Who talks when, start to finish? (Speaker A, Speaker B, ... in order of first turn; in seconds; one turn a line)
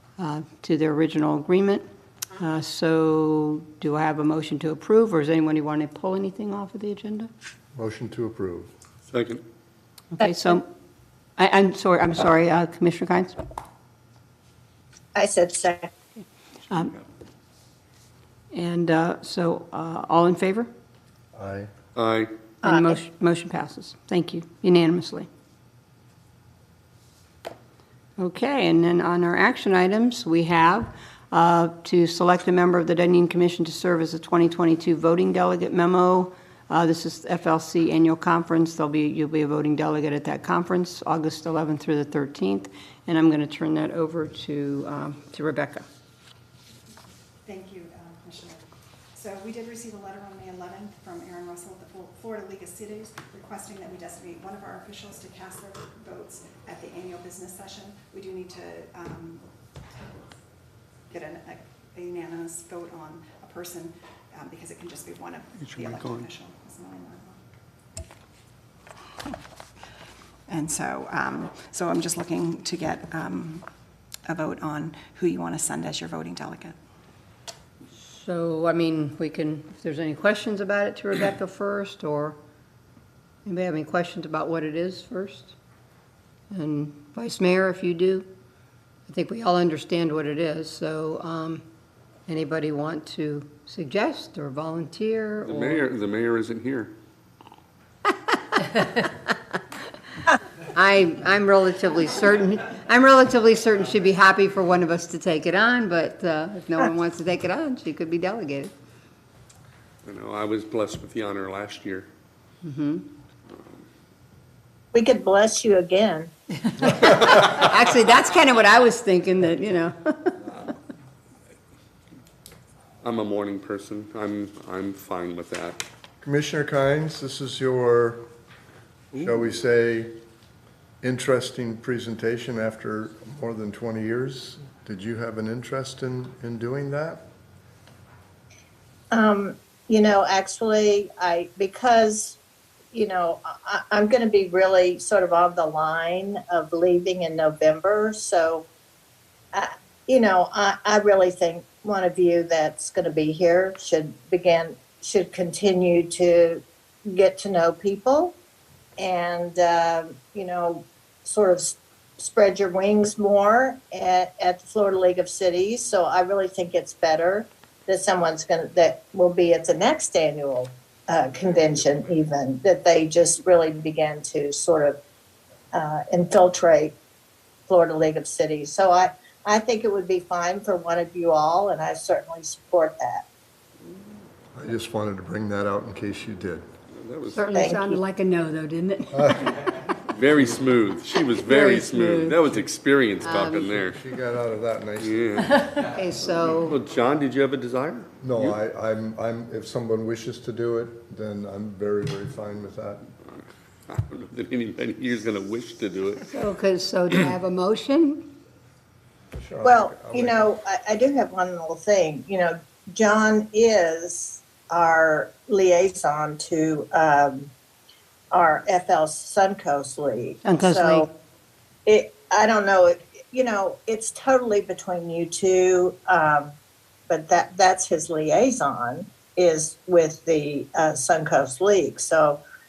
Speaker A: 0.2-1.8
Speaker A: 2.4-7.3
Speaker B: 7.8-8.7
Speaker C: 9.1-9.4
Speaker A: 10.1-10.7
Speaker A: 11.4-13.4
Speaker D: 15.2-15.9
Speaker A: 16.7-17.0
Speaker A: 18.5-20.7
Speaker B: 21.4-21.7
Speaker C: 22.0-22.3
Speaker A: 22.6-25.3
Speaker D: 22.6-23.0
Speaker A: 28.2-45.9
Speaker E: 47.5-48.6
Speaker E: 49.1-59.5
Speaker E: 61.1-67.4
Speaker C: 65.6-66.3
Speaker E: 70.5-73.7
Speaker E: 74.3-76.8
Speaker A: 78.0-82.4
Speaker A: 83.5-85.6
Speaker A: 86.5-88.3
Speaker A: 89.1-91.6
Speaker A: 92.3-95.8
Speaker C: 95.4-97.0
Speaker A: 98.3-99.6
Speaker A: 100.7-108.7
Speaker C: 110.0-112.1
Speaker A: 112.6-113.1
Speaker D: 114.9-116.3
Speaker A: 116.7-120.4
Speaker C: 123.0-125.8
Speaker B: 126.2-128.3
Speaker B: 129.2-130.2
Speaker B: 131.0-137.3
Speaker D: 139.1-142.4
Speaker D: 142.9-148.7
Speaker D: 149.5-158.4
Speaker D: 159.0-175.0
Speaker D: 175.7-177.0
Speaker D: 177.7-183.3
Speaker B: 184.6-186.7
Speaker C: 186.9-187.6
Speaker A: 187.3-189.5
Speaker D: 187.5-188.0
Speaker B: 189.1-189.6
Speaker C: 190.1-194.0
Speaker A: 191.5-192.4
Speaker A: 193.2-193.7
Speaker B: 193.7-195.6
Speaker C: 195.0-195.6
Speaker A: 195.4-196.8
Speaker C: 196.5-198.6
Speaker B: 198.2-203.1
Speaker C: 203.3-206.3
Speaker A: 206.3-208.3
Speaker B: 209.3-210.5
Speaker D: 209.6-217.5
Speaker D: 218.3-221.1
Speaker A: 220.4-221.1
Speaker D: 221.9-226.6
Speaker D: 227.1-232.4